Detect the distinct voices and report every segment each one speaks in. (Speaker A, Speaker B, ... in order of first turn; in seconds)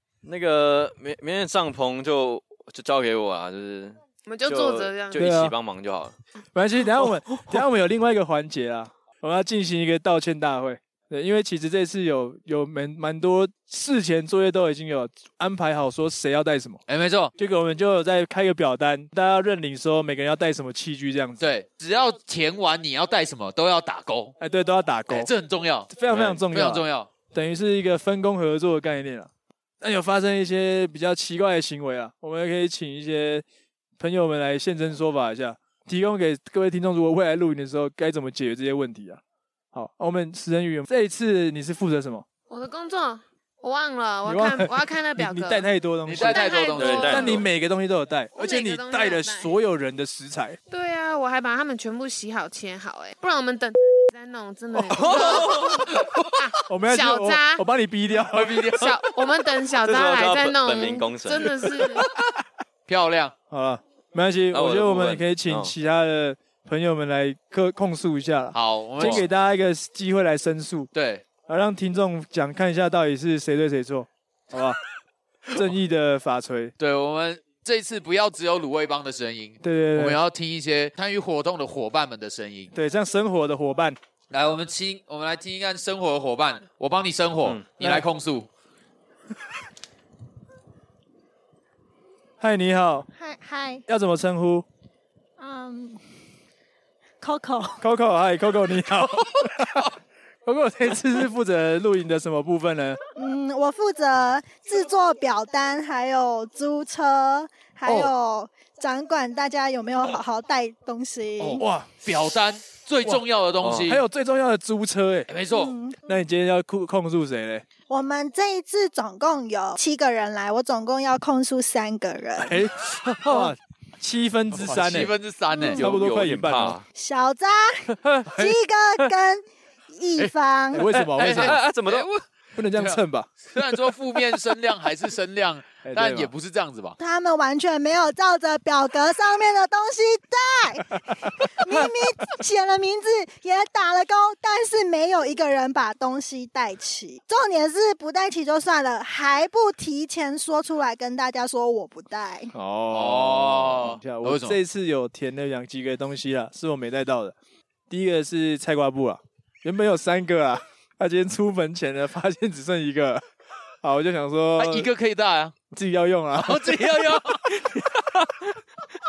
Speaker A: 0.2-6.2, 46.8-47.5, 54.9-55.9, 59.8-62.0, 64.5-65.7, 69.0-69.2, 113.6-113.9, 123.2-123.5, 125.7-126.8, 128.0-128.3, 130.9-132.1
Speaker B: 4.2-5.3, 42.5-47.4, 48.3-49.5, 50.7-57.6, 58.7-62.1
Speaker C: 5.1-5.5, 6.5-16.8, 17.4-21.5, 24.4-25.3, 25.9-29.3, 29.8-33.4, 34.0-39.2, 39.7-42.2, 44.2-50.6, 56.7-58.8, 63.5-70.9, 71.5-74.8, 75.5-76.7, 79.6-80.2, 82.7-84.0, 87.8-88.0, 92.4-93.1, 93.9-94.6, 97.8-99.9, 100.5-103.0, 107.8-108.1, 111.6-111.9, 113.8-115.3, 116.0-117.7, 122.4-125.1, 125.8-126.8, 130.7-131.6, 132.5-133.3, 135.8-136.3, 152.5-157.3, 157.9-163.2, 163.8-164.9, 165.7-168.2
Speaker D: 16.9-17.3, 21.4-24.4, 25.1-27.1, 46.0-47.4, 55.9-56.3, 58.3-59.1, 62.9-63.3, 68.5-69.2, 70.9-71.2, 76.8-82.7, 84.3-88.5, 111.4-114.0, 115.3-115.7, 124.5-125.8, 131.2-137.0, 152.9-154.6, 164.6-165.5, 166.4-167.7
Speaker E: 93.1-93.8, 95.4-96.1, 97.2-97.8, 103.1-111.6, 115.5-116.0, 117.9-122.6, 125.5-125.8, 126.9-130.9, 137.0-152.5